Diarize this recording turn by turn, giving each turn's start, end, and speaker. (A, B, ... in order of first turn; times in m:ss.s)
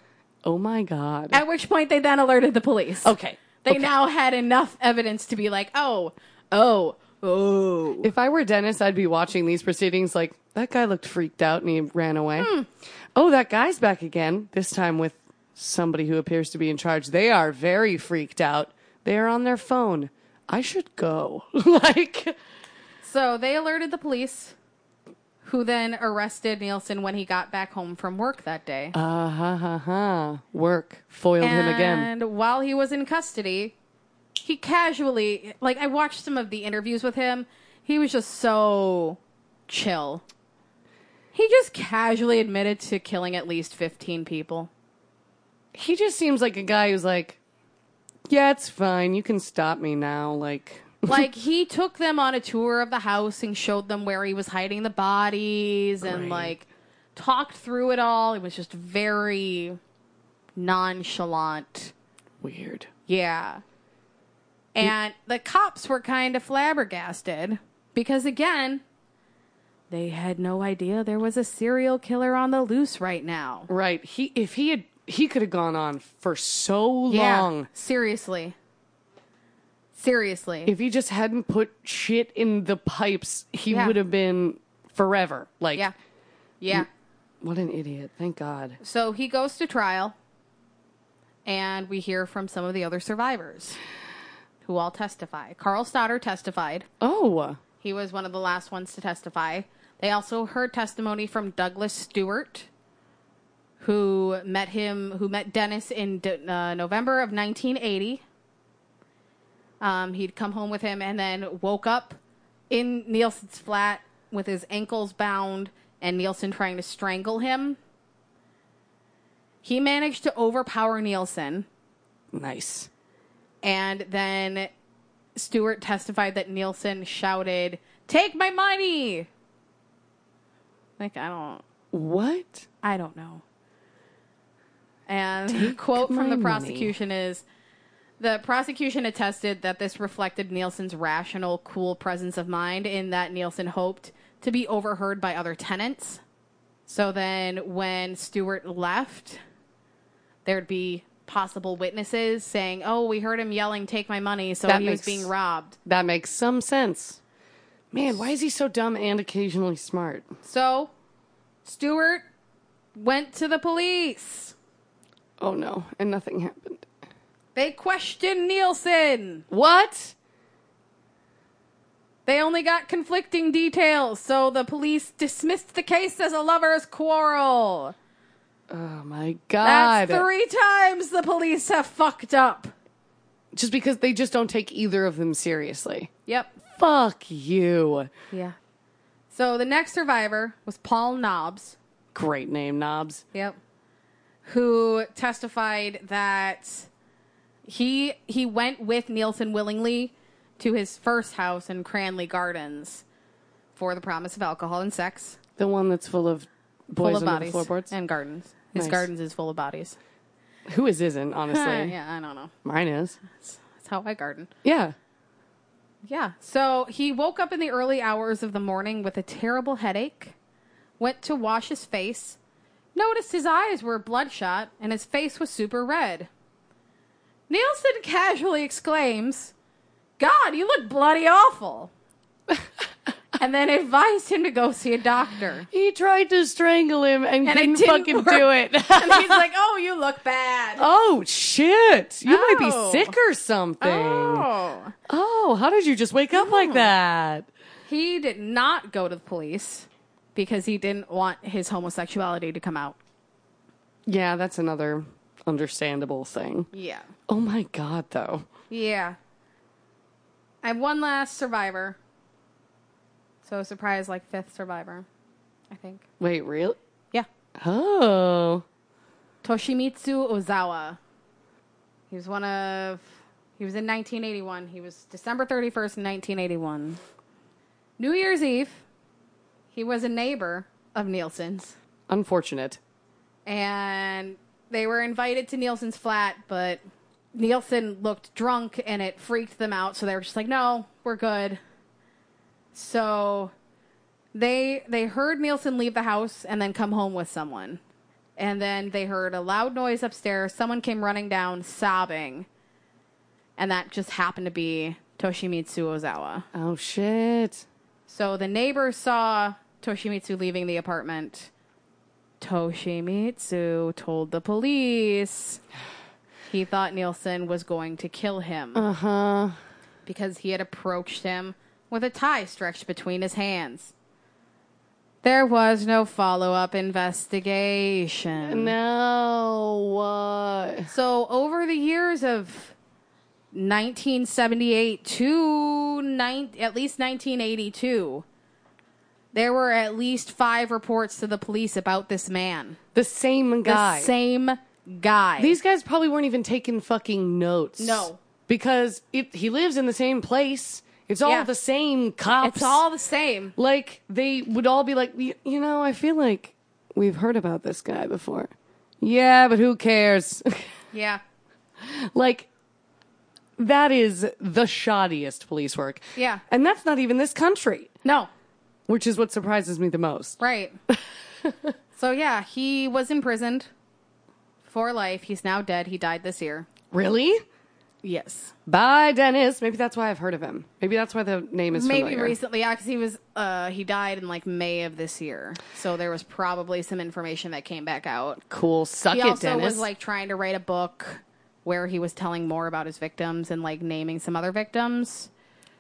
0:00.4-0:01.4 A
0:01.3-0:08.1 B
0:03.0-0:03.9 A
0:08.0-0:12.5 A
0:12.4-0:12.7 B
0:13.2-0:22.4 A
0:23.0-0:24.6 B
0:25.4-0:29.0 B
0:28.9-0:32.1 A
0:31.4-0:33.8 B
0:34.4-0:40.2 B
0:41.3-0:44.7 B
0:45.7-0:47.4 A
0:48.3-0:51.2 A
0:51.1-0:59.8 B
0:56.0-0:56.5 A
1:00.6-1:01.9 B
1:02.4-1:02.9 A
1:03.1-1:03.6 B
1:04.8-1:08.8 B
1:09.9-1:13.7 B
1:13.7-1:17.7 A
1:17.1-1:18.6 B
1:20.0-1:20.7 B
1:20.7-1:25.9 A
1:23.7-1:24.0 B
1:26.6-1:26.9 B
1:27.4-1:28.8 A
1:28.8-1:30.2 B
1:31.5-1:33.8 B
1:34.6-1:36.9 B
1:37.0-1:37.6 A
1:37.8-1:42.7 B
1:43.8-1:48.2 B
1:49.8-1:52.2 B
1:52.7-1:57.8 B
1:59.6-2:01.7 B
2:02.3-2:02.9 A
2:03.6-2:04.7 B
2:05.4-2:09.3 B
2:11.0-2:11.6 B
2:11.9-2:12.7 A
2:12.8-2:13.4 B
2:15.1-2:17.4 B
2:15.5-2:16.9 A
2:18.2-2:26.2 B
2:26.9-2:29.4 B
2:30.5-2:35.8 B
2:34.7-2:35.3 A
2:35.8-2:37.2 A
2:37.9-2:40.3 A
2:40.4-2:40.9 B
2:41.6-2:42.2 B
2:43.0-2:44.5 B
2:45.4-2:46.9 A
2:47.6-2:49.4 B
2:49.5-2:50.2 A
2:52.3-2:57.9 B
2:58.7-3:00.3 A
2:59.6-3:02.7 B
3:03.5-3:06.1 A
3:06.3-3:06.6 B
3:06.8-3:08.1 A
3:09.3-3:11.8 B
3:12.1-3:13.2 A
3:14.4-3:16.9 B
3:17.7-3:23.0 B
3:23.8-3:25.4 B
3:25.6-3:27.9 A
3:27.0-3:30.0 B
3:28.8-3:29.1 A
3:30.7-3:32.0 A
3:31.5-3:32.5 B
3:32.6-3:33.2 A
3:33.3-3:34.5 B
3:34.6-3:35.0 A
3:36.0-3:40.4 B
3:41.0-3:42.4 B
3:43.0-3:46.3 B
3:47.5-3:49.5 B
3:50.2-3:51.9 B
3:53.4-3:55.7 B
3:55.7-3:59.4 A
3:57.4-4:00.9 B
4:00.8-4:04.5 A
4:02.3-4:03.2 B
4:03.8-4:05.0 B
4:05.1-4:07.5 A
4:06.4-4:06.9 B
4:07.9-4:13.0 B
4:14.1-4:16.7 A
4:16.7-4:17.1 B
4:17.3-4:18.5 A
4:18.7-4:19.2 B
4:20.6-4:22.0 B
4:23.4-4:25.1 B
4:25.7-4:26.0 B
4:26.2-4:26.8 A
4:27.6-4:28.6 A
4:29.4-4:31.0 B
4:32.1-4:33.0 B
4:33.6-4:37.0 B
4:38.0-4:38.8 B
4:39.7-4:41.8 B
4:42.1-4:42.8 A
4:43.5-4:46.8 B
4:47.3-4:51.6 B
4:52.7-4:53.5 B
4:54.3-4:57.8 B
4:58.4-5:02.5 B
5:03.6-5:06.5 B
5:06.5-5:07.6 A
5:08.1-5:11.5 B
5:12.4-5:15.6 B
5:16.5-5:18.8 B
5:18.8-5:19.6 A
5:20.1-5:23.9 B
5:25.2-5:28.7 B
5:28.4-5:30.9 A
5:30.9-5:32.8 B
5:33.5-5:38.2 B
5:39.3-5:42.8 B
5:43.0-5:44.1 A
5:43.6-5:45.6 B
5:45.4-5:52.8 A
5:47.8-5:48.2 B
5:52.4-5:53.5 B
5:53.6-6:00.7 A
6:00.9-6:01.2 B
6:01.8-6:02.5 A
6:03.6-6:07.9 A
6:06.2-6:06.4 B
6:08.0-6:08.3 B
6:08.9-6:10.4 A
6:10.4-6:10.8 B
6:11.0-6:11.7 A
6:12.0-6:13.7 B
6:14.6-6:16.7 B
6:16.9-6:17.4 A
6:18.0-6:18.5 B
6:18.7-6:22.4 A
6:21.7-6:28.4 B
6:28.5-6:29.9 A
6:29.1-6:35.3 B